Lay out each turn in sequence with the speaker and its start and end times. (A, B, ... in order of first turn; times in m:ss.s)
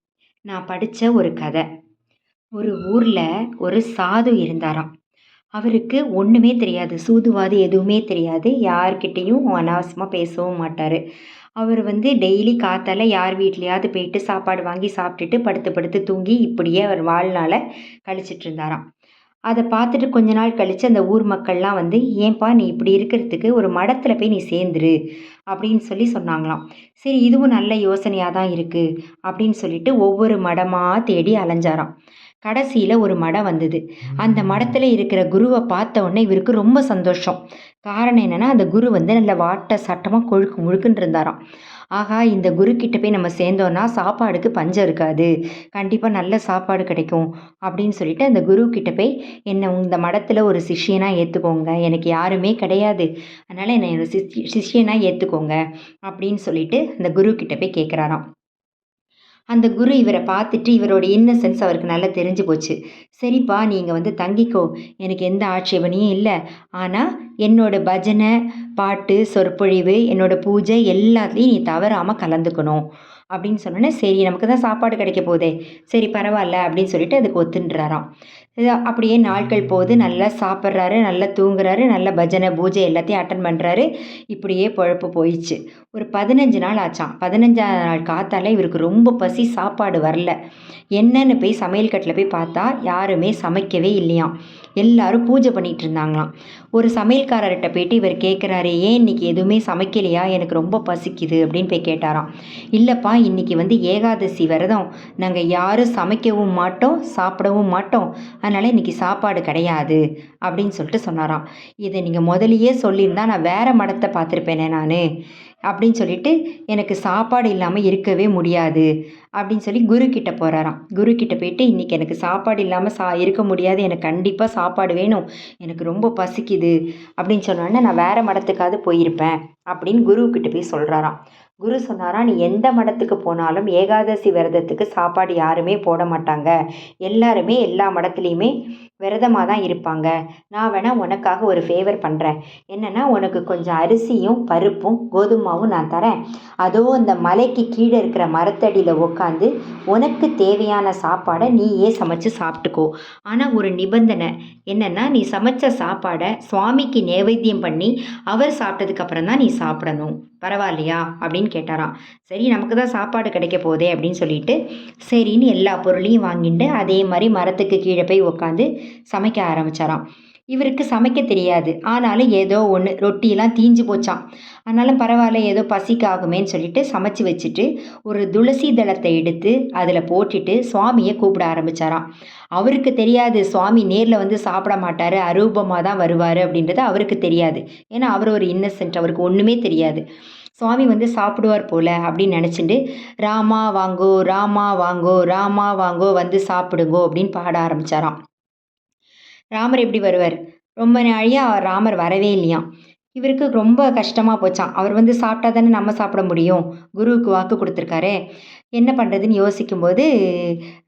0:00.5-0:01.6 A
0:02.6-0:04.9 A
0:05.6-0:11.0 A
0:11.6-0:18.8 A
0:19.5-0:24.9 A
0:25.5-0:31.9 A
0:32.4-0:41.4 A
0:42.0-0:58.2 A
0:59.5-1:18.0 A
1:18.6-1:30.3 A
1:31.0-1:55.0 A
1:55.7-1:58.9 A
1:59.4-2:44.6 A
2:45.1-3:02.0 A
3:02.6-3:10.0 A
3:10.6-3:18.2 A
3:19.6-3:28.2 A
3:28.8-3:30.6 A